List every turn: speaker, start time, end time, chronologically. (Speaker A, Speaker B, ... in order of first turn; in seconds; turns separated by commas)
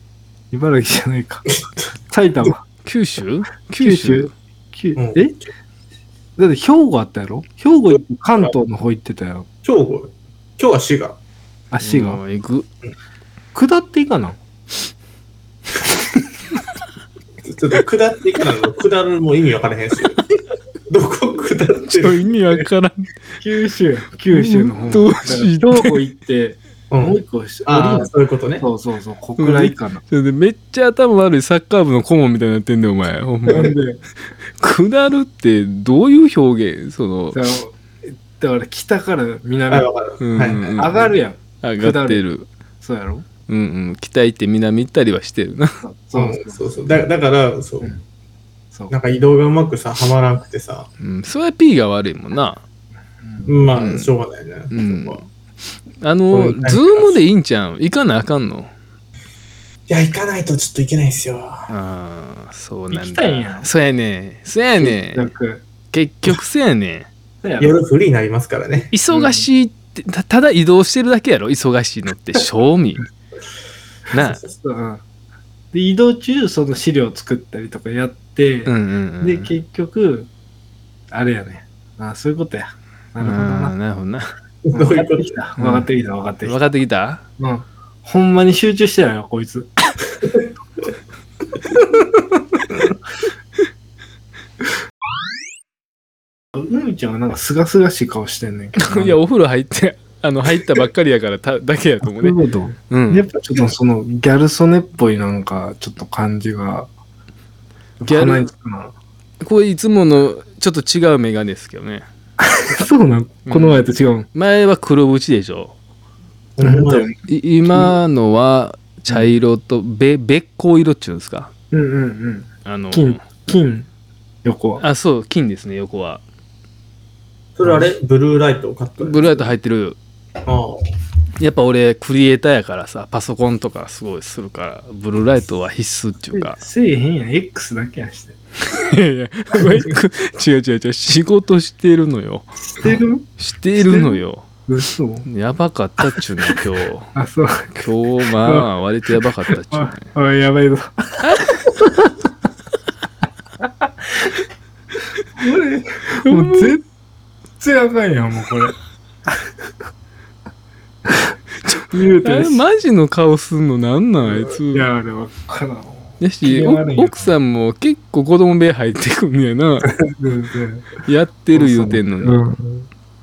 Speaker A: 0.5-1.5, Speaker B: 1.6-1.9, Speaker A: 2.1-2.6, Speaker C: 2.9-4.3, Speaker A: 3.8-5.4, Speaker B: 5.0-5.4, Speaker A: 6.4-9.5, Speaker B: 9.6-11.2, Speaker A: 11.7-12.2, Speaker C: 11.8-12.7, Speaker A: 13.5-14.4, Speaker B: 17.4-20.2, Speaker B: 20.9-22.6, Speaker C: 21.9-23.1, Speaker A: 23.4-30.0, Speaker C: 24.3-25.9, Speaker B: 26.9-28.6, Speaker C: 29.4-33.7, Speaker A: 33.5-34.0, Speaker C: 34.6-37.4, Speaker A: 37.3-39.9, Speaker B: 39.7-40.6, Speaker C: 40.2-41.1, Speaker A: 40.6-42.2, Speaker C: 41.6-42.5, Speaker A: 42.8-43.3, Speaker C: 43.5-45.8, Speaker A: 45.8-46.8, Speaker B: 46.1-47.9, Speaker B: 48.9-50.9, Speaker C: 51.0-52.6, Speaker A: 53.2-53.7, Speaker B: 53.5-55.2, Speaker C: 53.8-54.1, Speaker C: 54.7-55.2, Speaker C: 56.0-58.7, Speaker B: 56.3-57.2, Speaker B: 59.9-61.7, Speaker C: 61.7-65.3, Speaker A: 62.9-63.7, Speaker A: 64.8-65.6, Speaker C: 65.9-67.1, Speaker A: 67.4-67.8, Speaker B: 67.6-68.9, Speaker C: 68.9-73.0, Speaker A: 69.1-69.5, Speaker C: 74.1-74.4, Speaker B: 74.2-74.5, Speaker A: 74.5-75.0, Speaker A: 75.7-80.3, Speaker C: 78.7-79.5, Speaker A: 81.1-83.8, Speaker C: 83.2-84.3, Speaker B: 84.7-85.4, Speaker A: 84.7-86.6, Speaker C: 85.6-85.9, Speaker C: 86.4-87.2, Speaker A: 87.4-89.8, Speaker A: 92.0-92.9, Speaker A: 96.5-99.2, Speaker C: 98.8-102.4, Speaker A: 102.0-106.9, Speaker C: 102.9-103.3, Speaker A: 108.0-109.0, Speaker C: 108.1-108.5, Speaker C: 109.4-112.1, Speaker A: 112.4-114.3, Speaker C: 113.5-115.7, Speaker B: 116.6-117.1, Speaker A: 116.6-118.0, Speaker C: 117.3-121.5, Speaker A: 121.7-123.9, Speaker C: 122.7-123.2, Speaker A: 124.4-124.8, Speaker C: 124.8-126.2, Speaker B: 127.6-129.5, Speaker C: 129.0-130.0, Speaker B: 130.4-130.9, Speaker C: 131.4-136.6, Speaker A: 136.3-138.4, Speaker C: 138.7-144.5, Speaker A: 139.6-139.9, Speaker A: 142.7-145.3, Speaker C: 145.3-147.1, Speaker A: 146.0-146.6, Speaker A: 147.2-147.8, Speaker C: 147.8-150.1, Speaker A: 148.4-152.2, Speaker C: 151.2-151.6, Speaker A: 153.6-154.4, Speaker A: 155.4-156.8, Speaker C: 156.2-156.8, Speaker A: 157.6-158.8, Speaker C: 161.7-164.9, Speaker A: 161.9-162.6, Speaker A: 164.2-167.3, Speaker C: 166.2-169.9, Speaker A: 169.8-171.0, Speaker C: 171.1-172.4, Speaker A: 171.6-172.9